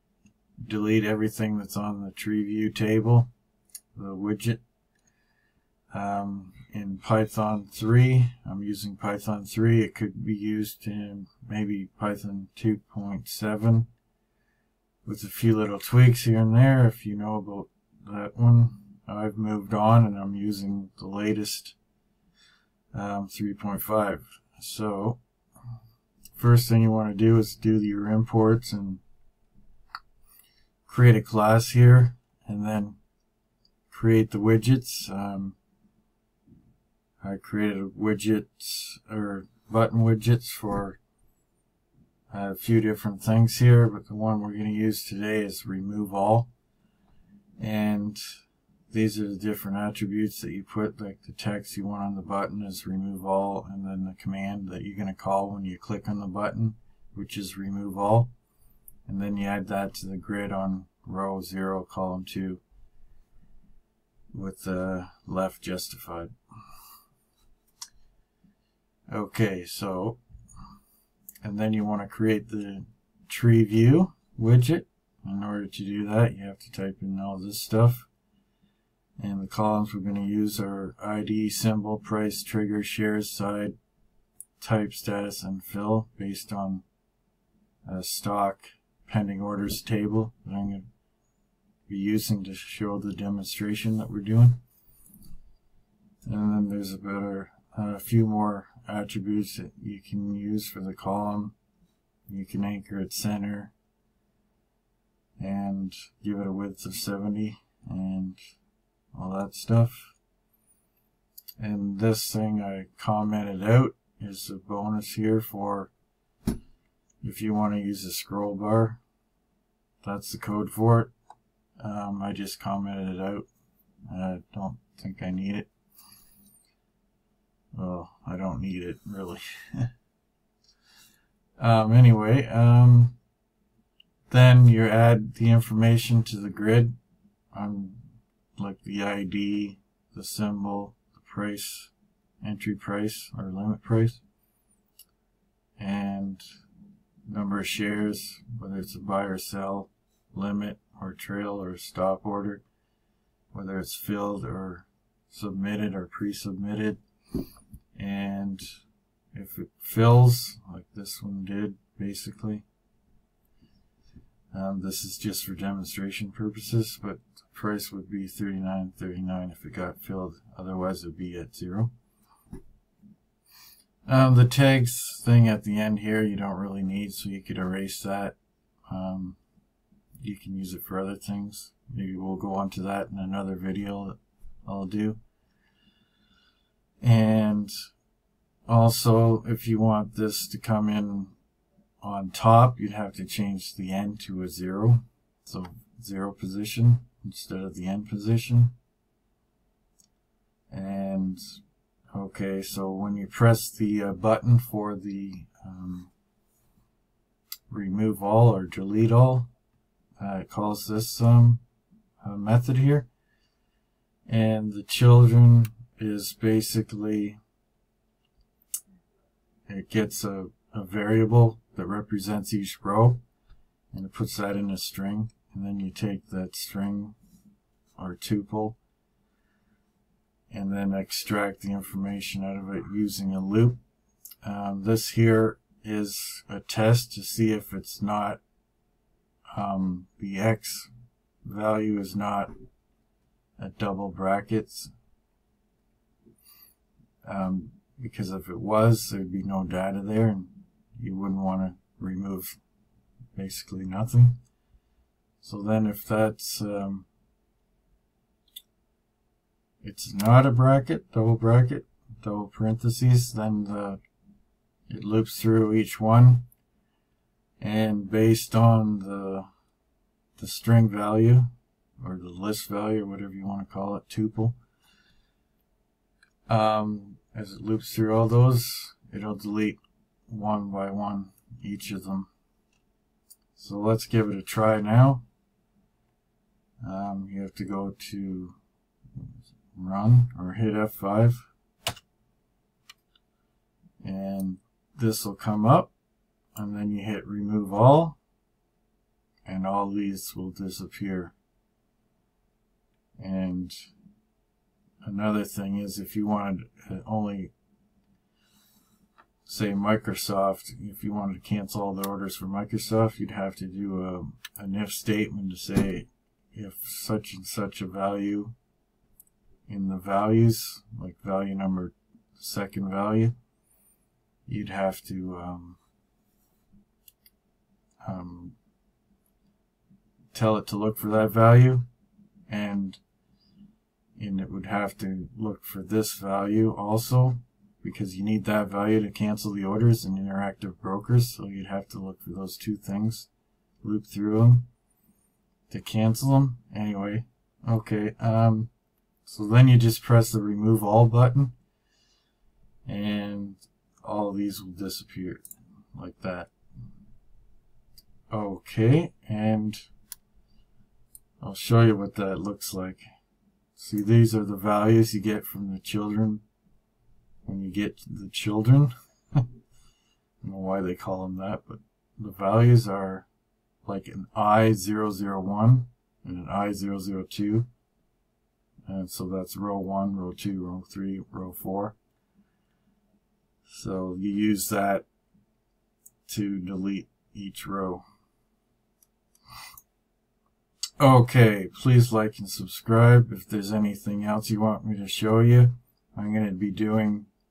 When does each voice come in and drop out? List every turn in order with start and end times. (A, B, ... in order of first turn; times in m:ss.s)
0:00.6-0:03.3 A
0:03.9-0:04.6 A
0:05.9-0:13.9 A
0:15.0-0:21.8 A
0:22.9-0:25.2 A
0:26.3-0:29.0 A
0:30.8-0:33.0 A
0:33.9-0:35.6 A
0:37.2-0:41.0 A
0:42.3-0:46.5 A
0:47.6-0:48.4 A
0:48.9-0:58.3 A
0:59.1-1:02.6 A
1:04.3-1:06.3 A
1:09.1-1:10.2 A
1:11.4-1:18.1 A
1:19.2-1:23.8 A
1:24.6-1:26.8 A
1:27.8-1:30.9 A
1:31.9-1:34.6 A
1:36.2-1:41.5 A
1:42.3-1:43.7 A
1:45.4-1:48.4 A
1:49.1-1:50.1 A
1:51.6-1:55.9 A
1:57.2-1:59.0 A
2:00.0-2:01.1 A
2:01.8-2:03.5 A
2:04.1-2:05.7 A
2:07.7-2:09.9 A
2:11.6-2:13.2 A
2:14.3-2:16.9 A
2:17.5-2:18.0 A
2:18.6-2:24.2 A
2:25.8-2:26.4 A
2:27.3-2:32.6 A
2:33.5-2:37.0 A
2:38.0-2:38.7 A
2:39.3-2:42.6 A
2:44.5-2:51.9 A
2:54.1-2:58.4 A
2:58.9-2:59.4 A
3:00.2-3:05.2 A
3:07.0-3:07.7 A
3:08.7-3:11.3 A
3:12.0-3:18.7 A
3:20.7-3:21.4 A
3:22.1-3:26.1 A
3:27.7-3:29.5 A
3:30.2-3:31.6 A
3:32.2-3:33.1 A
3:34.3-3:37.4 A
3:39.7-3:43.2 A
3:43.9-3:47.2 A
3:48.0-3:48.8 A
3:50.5-3:53.8 A
3:54.4-3:58.4 A
3:59.5-4:00.9 A
4:01.4-4:02.5 A
4:03.6-4:04.9 A
4:07.2-4:12.6 A
4:13.4-4:14.4 A
4:15.4-4:17.1 A
4:19.8-4:24.0 A
4:24.9-4:26.5 A
4:27.6-4:29.5 A
4:30.4-4:34.6 A
4:36.5-4:42.3 A
4:43.5-4:45.2 A
4:46.8-4:48.6 A
4:49.2-4:51.5 A
4:54.0-4:55.9 A
4:56.5-4:58.2 A
4:59.4-5:01.3 A
5:03.2-5:03.9 A
5:05.0-5:07.5 A
5:09.4-5:18.5 A
5:19.7-5:23.3 A
5:24.5-5:25.8 A
5:28.0-5:28.6 A
5:30.3-5:31.9 A
5:32.5-5:33.0 A
5:34.2-5:43.3 A
5:43.8-5:44.7 A
5:45.7-5:48.7 A
5:49.2-5:51.5 A
5:52.8-5:55.4 A
5:55.9-5:56.5 A
5:58.3-5:59.9 A
6:01.4-6:03.0 A
6:03.8-6:06.4 A
6:07.4-6:09.5 A
6:10.4-6:13.3 A
6:13.8-6:17.7 A
6:18.9-6:22.0 A
6:23.6-6:25.0 A
6:26.3-6:28.0 A
6:31.0-6:37.3 A